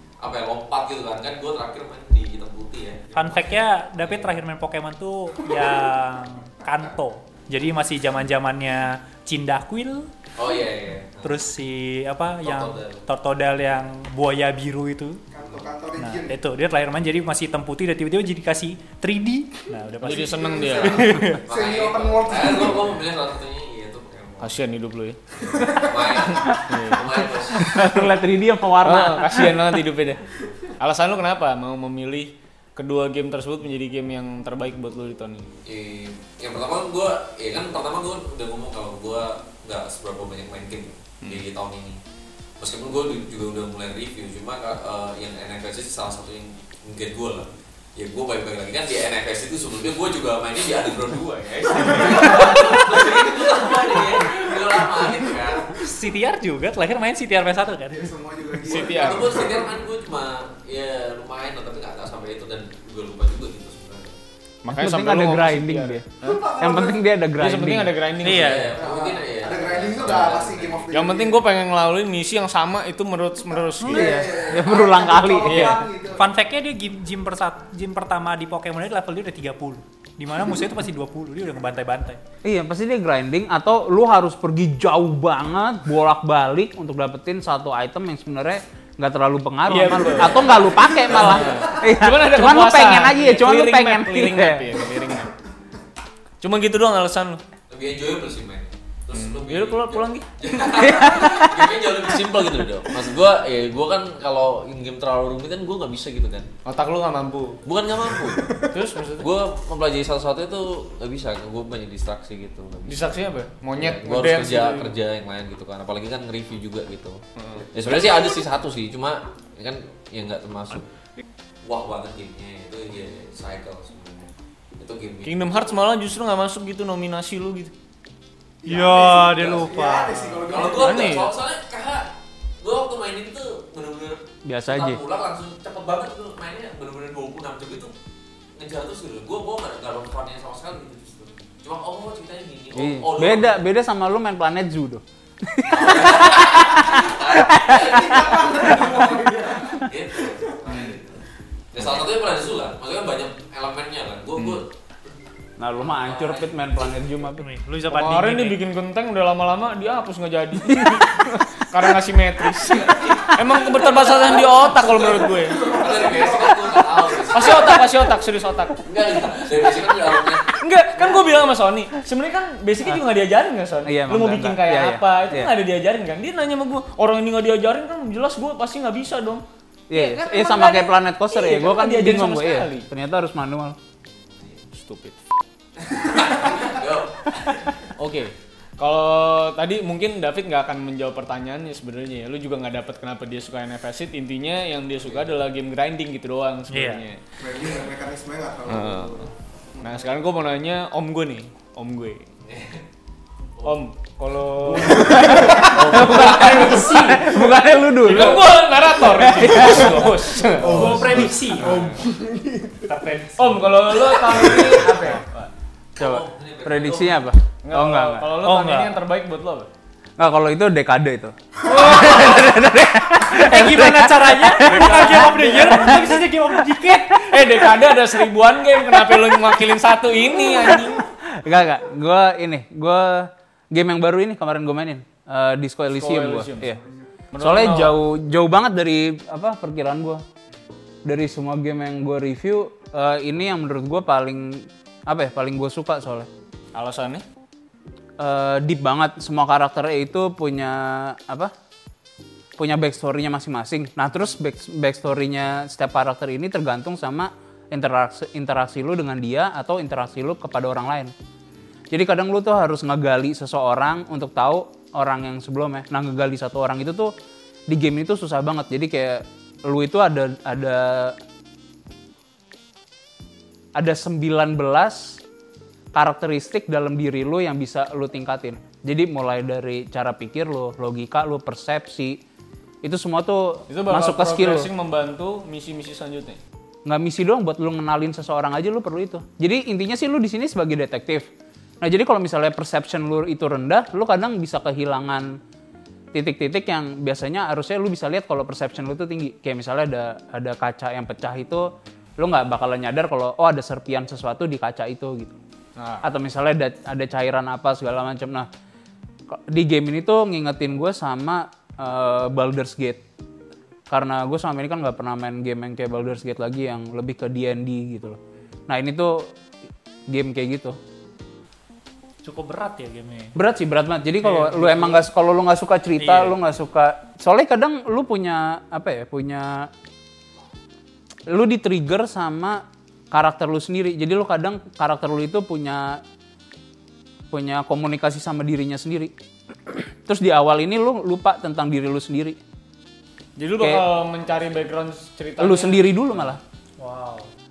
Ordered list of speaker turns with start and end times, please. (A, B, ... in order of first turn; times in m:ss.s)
0:00.2-0:04.3 A
0:03.1-0:10.1 B
0:10.4-0:11.4 A
0:11.2-0:15.2 B
0:12.4-0:13.0 A
0:15.3-0:16.3 C
0:16.0-0:21.4 B
0:20.0-0:21.1 D
0:20.0-0:23.1 C
0:21.4-0:24.5 A
0:24.4-0:25.2 D
0:25.7-0:27.7 A
0:26.3-0:28.1 D
0:27.5-0:29.6 E
0:28.8-0:30.2 D
0:30.8-0:35.5 D
0:35.6-0:42.0 A
0:42.6-0:55.8 A
0:55.7-0:58.1 B
0:57.9-0:59.8 C
0:58.7-0:59.5 D
0:58.7-1:04.2 A
1:04.6-1:06.4 D
1:04.7-1:07.9 E
1:06.2-1:07.0 C
1:07.4-1:08.7 D
1:08.2-1:08.8 B
1:08.2-1:10.8 A
1:08.8-1:11.4 C
1:10.9-1:14.1 D
1:13.8-1:16.3 C
1:13.8-1:15.8 E
1:15.4-1:15.8 D
1:16.1-1:22.2 B
1:22.4-1:34.8 E
1:29.7-1:35.3 D
1:31.3-1:31.6 C
1:36.4-1:37.4 D
1:37.7-1:46.5 A
1:39.1-1:40.3 D
1:40.7-1:41.8 E
1:46.6-1:47.6 D
1:47.6-1:48.5 A
1:48.3-1:48.7 C
1:48.7-1:49.3 D
1:49.2-1:53.1 A
1:52.8-1:54.9 D
1:53.8-1:57.2 A
1:57.4-1:57.7 D
1:57.7-2:00.8 A
2:01.6-2:05.6 A
2:05.2-2:07.7 D
2:08.6-2:11.2 C
2:08.6-2:10.6 B
2:09.4-2:09.7 A
2:10.4-2:17.9 A
2:10.8-2:11.3 D
2:14.4-2:15.0 E
2:18.6-2:23.5 A
2:22.7-2:28.4 E
2:25.7-2:34.7 A
2:27.6-2:30.5 C
2:30.7-2:31.0 D
2:34.4-2:34.6 D
2:35.6-2:37.4 E
2:35.8-2:37.0 A
2:37.4-2:38.6 B
2:37.9-2:45.8 D
2:42.6-2:47.8 A
2:45.6-2:46.6 C
2:47.3-2:48.8 D
2:48.8-2:50.6 A
2:50.3-3:02.9 D
2:53.8-2:55.5 E
2:59.9-3:03.8 E
3:04.0-3:04.6 A
3:04.7-3:05.2 D
3:05.8-3:07.9 A
3:08.0-3:17.2 D
3:16.7-3:17.0 B
3:17.4-3:20.0 C
3:18.7-3:19.2 D
3:19.8-3:22.2 D
3:22.4-3:22.8 A
3:23.6-3:25.6 D
3:24.7-3:25.7 C
3:24.8-3:30.2 E
3:24.9-3:26.9 A
3:26.2-3:27.3 B
3:28.0-3:31.0 D
3:30.6-3:32.8 C
3:30.6-3:31.9 B
3:30.6-3:31.9 A
3:32.8-3:33.8 B
3:33.4-3:35.5 D
3:34.3-3:34.7 C
3:34.8-3:35.2 B
3:36.0-3:37.2 A
3:36.0-3:38.2 E
3:37.6-3:39.7 D
3:38.4-3:39.0 B
3:40.2-3:47.0 E
3:43.2-3:47.6 B
3:44.6-3:45.9 D
3:47.3-3:51.0 D
3:49.0-3:49.4 E
3:50.3-3:56.8 E
3:55.9-3:56.7 D
3:57.3-3:57.9 D
3:57.4-4:00.2 E
4:01.0-4:06.3 E
4:06.7-4:07.2 D
4:08.2-4:11.5 E
4:12.6-4:21.1 E
4:21.9-4:27.1 E
4:27.7-4:31.2 E
4:33.8-4:35.2 E
4:35.9-4:42.2 E
4:42.8-4:44.7 E
4:43.7-4:46.4 D
4:46.8-4:51.3 E
4:51.8-4:55.4 E
4:56.1-5:05.4 E
5:05.8-5:06.1 D
5:06.0-5:08.5 E
5:09.3-5:13.0 E
5:13.9-5:19.3 E
5:20.1-5:20.8 E
5:22.2-5:23.3 B
5:23.3-5:29.7 E
5:24.4-5:24.9 D
5:26.0-5:26.4 D
5:31.3-5:36.0 E
5:37.3-5:39.1 E
5:39.7-5:42.4 E
5:43.4-5:46.0 D
5:43.6-5:43.8 E
5:45.4-5:46.4 E
5:46.8-5:47.3 B